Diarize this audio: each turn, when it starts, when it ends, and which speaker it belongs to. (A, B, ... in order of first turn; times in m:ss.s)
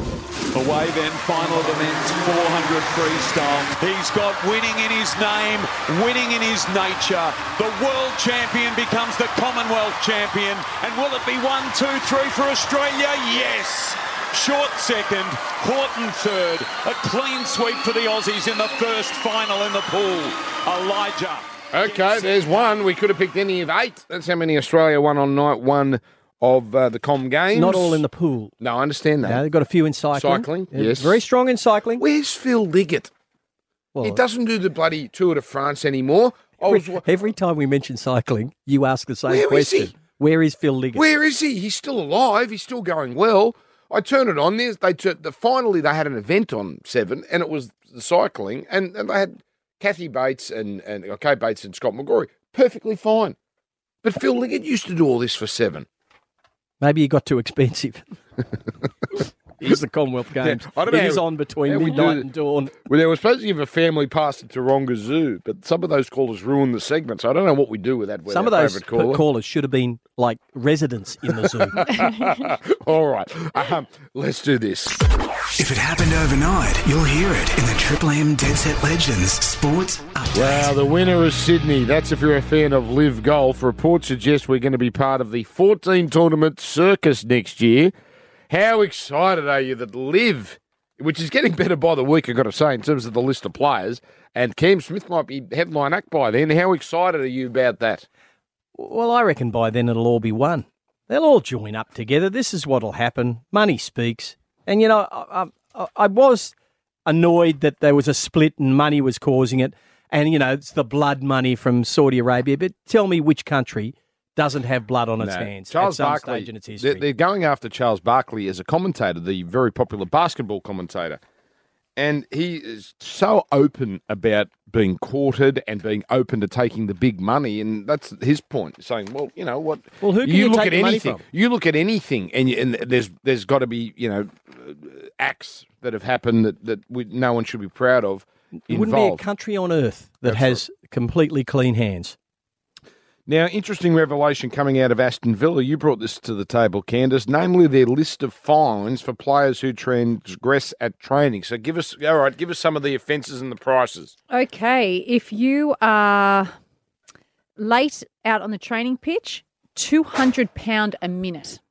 0:00.5-0:21.5 A
0:21.7-0:28.0 B
0:27.5-0:28.5 C
0:28.6-0:29.4 B
0:29.2-0:32.0 C
0:30.2-0:31.2 B
0:32.0-0:33.1 B
0:34.0-0:34.2 C
0:34.0-0:37.0 B
0:36.6-0:41.0 C
0:39.3-0:39.9 B
0:41.0-0:53.4 B
0:54.0-0:55.9 B
0:56.8-0:58.2 C
0:59.6-1:02.8 C
1:00.4-1:09.2 B
1:08.3-1:11.9 C
1:11.4-1:15.0 B
1:15.6-1:20.8 D
1:20.3-1:27.9 B
1:28.5-1:38.1 B
1:38.8-1:46.5 C
1:47.1-1:57.0 C
1:55.2-2:01.2 B
2:02.0-2:19.2 B
2:10.0-2:11.2 C
2:18.7-2:22.2 C
2:20.2-2:20.6 B
2:23.3-2:34.1 B
2:34.3-2:36.5 E
2:37.6-2:41.6 E